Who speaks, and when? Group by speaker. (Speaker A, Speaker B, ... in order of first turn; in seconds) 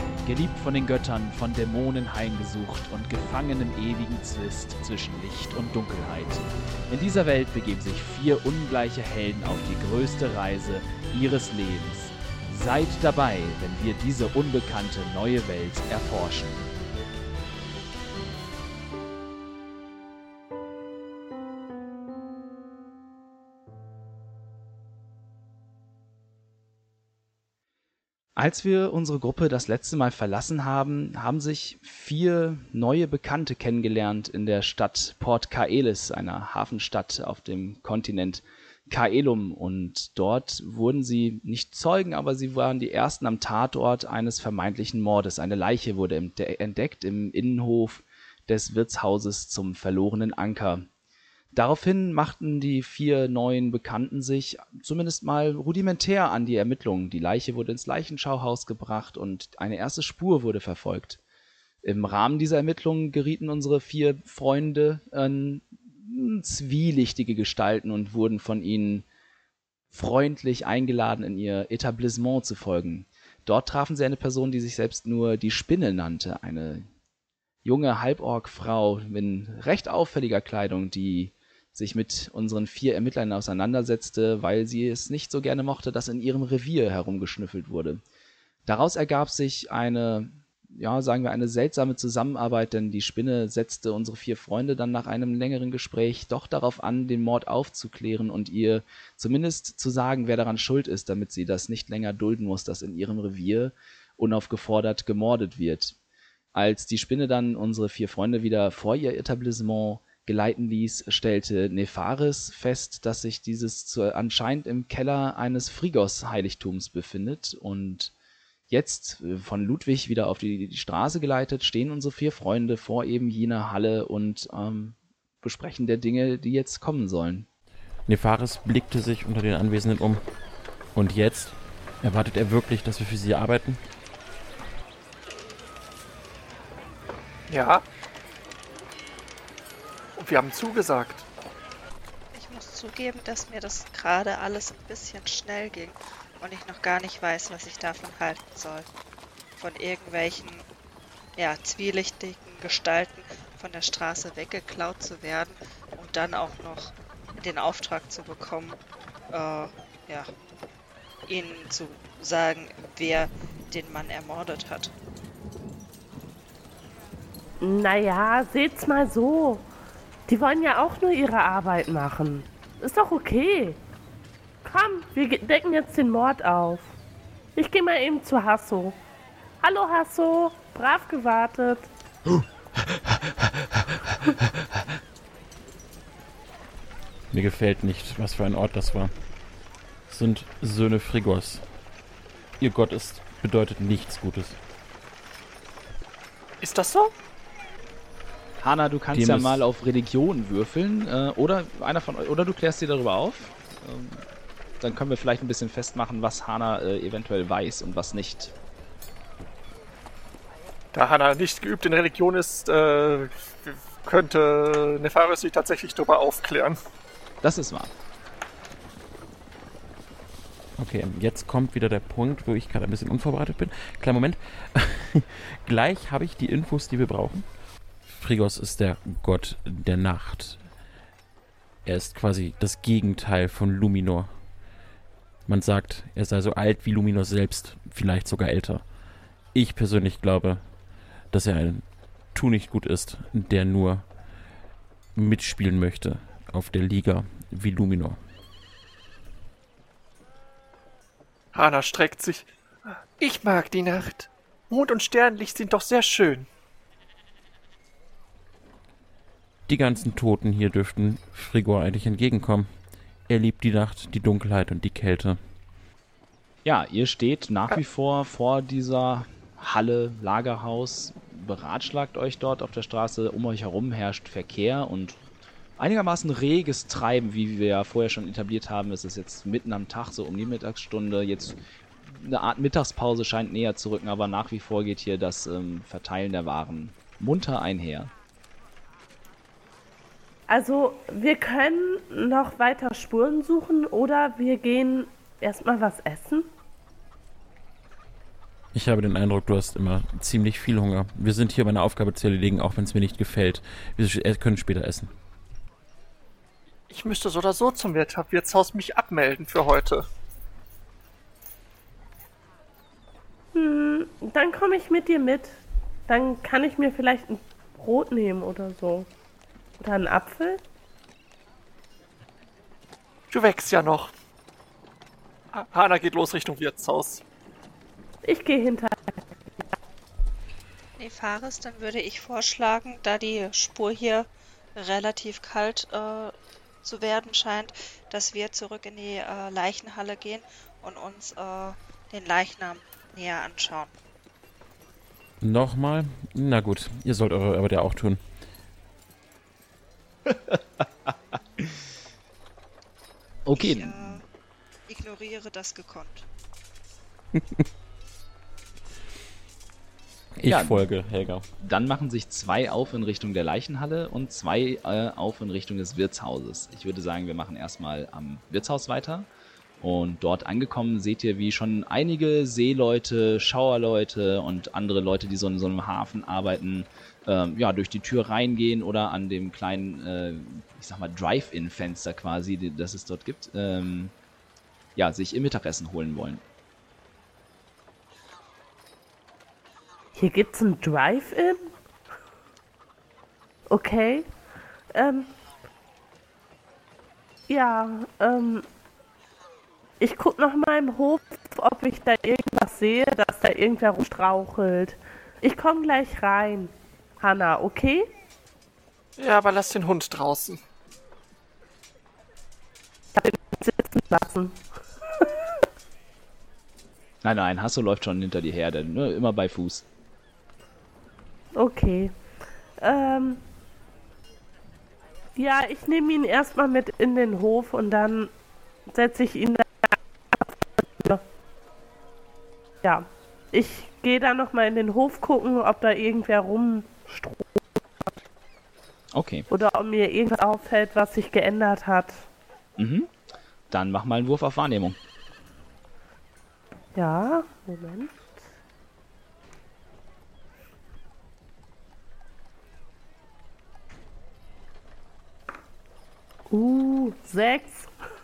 Speaker A: 0.2-16.7, 28.4-50.9, 51.5-61.2, 61.8-69.0, 69.9-76.8, 77.6-88.0, 88.7-106.0, 106.5-118.1, 118.7-127.5, 198.6-204.2, 204.8-208.5, 217.4-217.9, 266.6-275.2, 275.8-288.1, 350.3-350.6, 353.4-354.2, 360.5-360.9, 361.6-369.3, 369.8-384.1, 384.9-386.4, 417.2-419.8, 439.1-439.5, 442.8-443.1, 443.7-445.0
Speaker B: 128.1-130.2, 130.9-133.8, 187.3-189.1, 190.1-191.6, 192.6-194.6, 199.1-199.6, 220.8-227.4, 228.1-230.6, 231.8-234.3, 235.5-238.8, 239.5-240.6, 241.3-244.1, 245.2-248.2, 259.7-262.7, 263.3-265.4, 298.7-305.1, 345.4-348.2, 360.4-361.4
Speaker C: 137.5-137.8, 140.2-141.2, 196.6-197.1, 210.9-216.8, 251.5-252.5, 253.2-256.5, 306.9-310.0, 323.3-324.1, 325.5-327.2, 409.2-410.6
Speaker D: 142.3-148.8, 149.6-150.7, 151.4-158.8, 159.3-160.3, 161.3-164.9, 331.0-343.9, 353.5-354.2, 354.9-356.3
Speaker E: 167.6-169.6, 170.3-173.8, 174.6-176.9, 177.5-179.0, 179.6-181.9, 290.5-296.5, 313.5-319.1, 319.8-320.6, 328.2-329.2, 390.1-391.7, 393.7-394.3, 394.9-395.3, 397.5-398.7, 400.0-408.1, 413.1-414.6, 421.5-422.1, 422.8-423.4, 425.4-428.3, 428.9-431.2, 432.8-437.6, 439.5-442.2, 446.9-448.2, 456.5-457.9